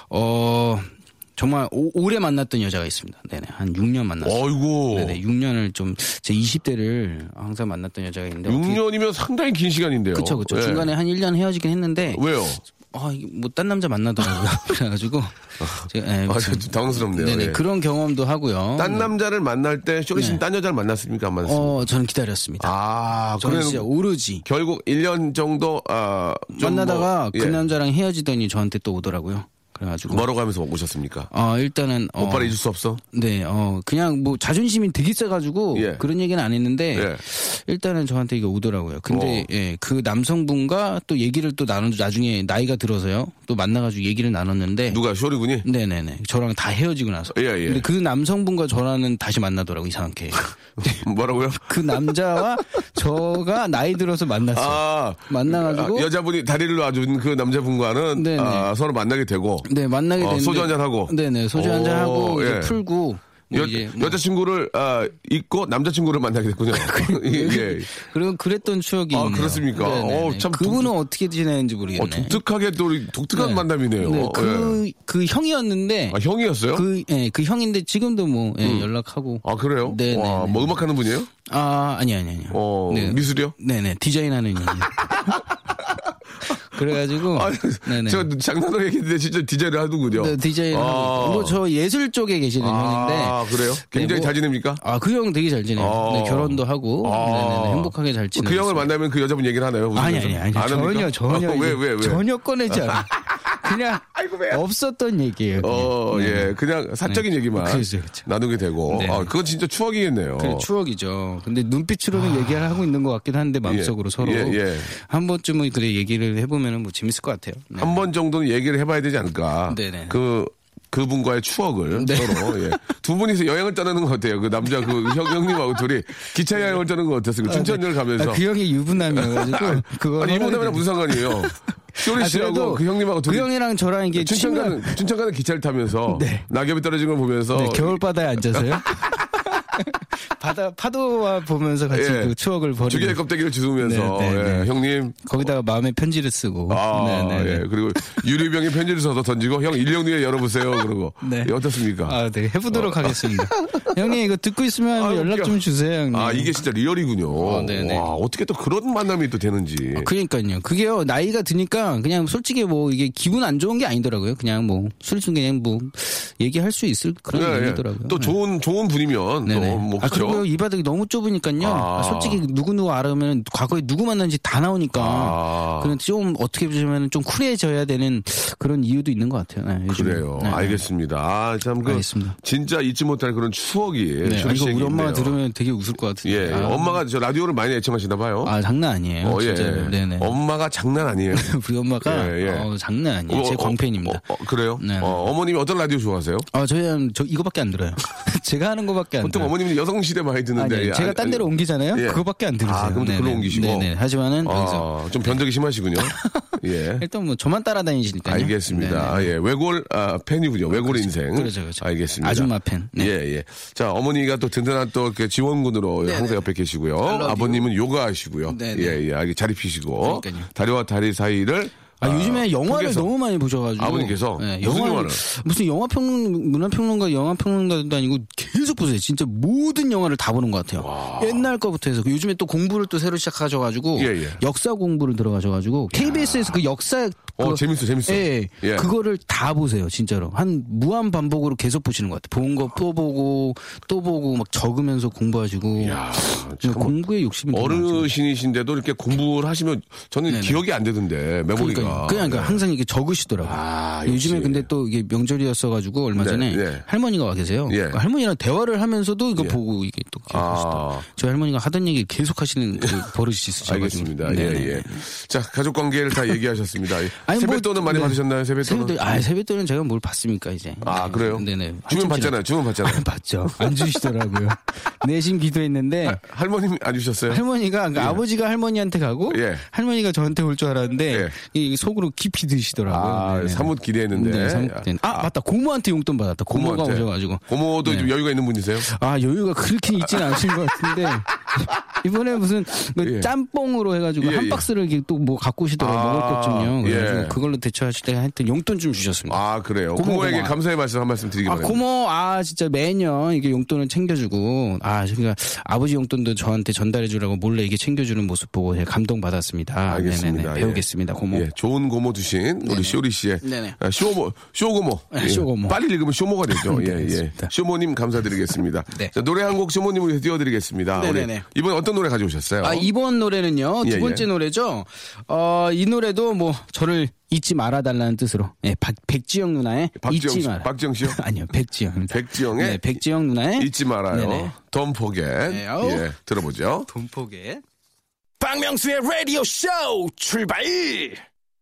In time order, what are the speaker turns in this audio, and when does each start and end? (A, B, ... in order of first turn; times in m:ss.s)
0:00.1-0:08.8 A
0:04.2-0:05.2 B
0:08.4-0:10.9 B
0:10.1-0:12.2 A
0:12.1-0:12.6 B
0:12.9-0:19.1 A
0:15.6-0:17.6 B
0:18.8-0:21.8 B
0:20.1-0:20.4 A
0:21.4-0:22.7 A
0:22.6-0:23.9 B
0:23.4-0:24.4 A
0:24.4-0:27.6 B
0:26.5-0:30.3 A
0:30.1-0:31.3 B
0:31.3-0:45.0 A
0:32.2-0:33.0 B
0:35.7-0:36.0 B
0:36.9-0:37.2 B
0:39.1-0:39.5 B
0:44.9-0:45.7 B
0:45.6-0:51.0 A
0:47.3-0:47.8 B
0:50.8-0:52.2 B
0:51.6-0:56.1 A
0:54.5-1:02.8 B
0:58.1-0:58.7 A
0:59.6-1:04.2 A
1:03.5-1:07.9 B
1:06.7-1:12.4 A
1:09.1-1:10.9 B
1:12.0-1:14.8 B
1:13.3-1:16.2 A
1:16.1-1:16.8 B
1:16.7-1:20.8 A
1:18.6-1:18.9 B
1:19.4-1:21.3 B
1:21.4-1:25.4 A
1:22.5-1:23.5 B
1:24.9-1:25.9 B
1:26.5-1:28.3 A
1:27.2-1:31.6 B
1:30.1-1:38.9 A
1:32.6-1:34.8 B
1:35.8-1:44.6 B
1:39.9-1:48.3 A
1:45.6-1:50.7 B
1:48.9-1:49.3 A
1:50.4-1:58.0 A
1:53.6-1:54.9 B
1:57.8-2:08.4 B
1:59.7-2:00.2 A
2:01.9-2:02.9 A
2:04.8-2:05.6 A
2:07.4-2:15.0 A
2:08.9-2:13.5 B
2:14.1-2:19.3 B
2:16.1-2:16.4 A
2:17.5-2:23.2 A
2:21.9-2:25.3 B
2:23.8-2:24.7 A
2:25.2-2:28.2 A
2:26.7-2:32.2 B
2:31.2-2:36.6 A
2:32.7-2:34.1 B
2:34.9-2:40.1 B
2:37.4-2:38.1 A
2:40.0-2:48.4 A
2:47.3-2:50.4 B
2:49.4-3:00.8 A
2:51.6-2:52.4 B
2:55.0-2:55.9 B
2:59.9-3:05.4 B
3:01.8-3:02.4 A
3:04.2-3:07.0 A
3:06.2-3:08.5 B
3:08.4-3:10.4 A
3:09.2-3:11.5 B
3:11.3-3:14.2 A
3:12.0-3:12.7 B
3:13.3-3:16.5 B
3:14.8-3:15.3 A
3:16.5-3:19.5 A
3:19.2-3:23.9 B
3:20.6-3:25.4 A
3:24.4-3:27.0 B
3:26.0-3:29.3 A
3:28.2-3:43.1 B
3:30.7-3:33.1 A
3:36.0-3:36.4 A
3:37.0-3:37.7 A
3:38.5-3:39.0 A
3:40.0-3:40.5 A
3:42.0-4:08.1 A
3:43.8-3:45.2 B
3:50.8-3:51.5 B
3:54.0-3:54.4 B
3:55.9-3:56.6 B
3:57.4-3:58.9 B
4:05.8-4:07.0 B
4:07.5-4:12.6 B
4:10.3-4:10.6 A
4:11.5-4:25.0 A
4:13.4-4:14.7 B
4:16.1-4:16.8 B
4:17.7-4:18.0 B
4:20.3-4:21.0 B
4:23.6-4:29.2 B
4:27.2-4:36.2 A
4:30.8-4:34.1 B
4:36.0-4:37.4 B
4:37.3-4:48.1 A
4:38.0-4:38.2 B
4:39.3-4:39.6 B
4:42.9-4:45.3 B
4:46.5-4:48.9 B
4:48.8-4:59.4 A
4:50.1-4:51.1 B
4:53.0-4:53.3 B
4:54.2-4:54.7 B
4:55.8-4:57.4 B
4:59.3-5:01.8 B
4:59.9-5:00.6 A
5:01.4-5:11.4 A
5:09.9-5:22.9 B
5:12.6-5:13.8 A
5:15.1-5:15.8 A
5:16.5-5:17.5 A
5:20.9-5:21.4 A
5:22.6-5:34.6 A
5:23.8-5:24.3 B
5:30.0-5:31.2 B
5:32.1-5:33.0 B
5:33.6-5:36.9 B
5:35.4-5:36.1 A
5:36.9-5:37.6 A
5:38.4-5:41.2 A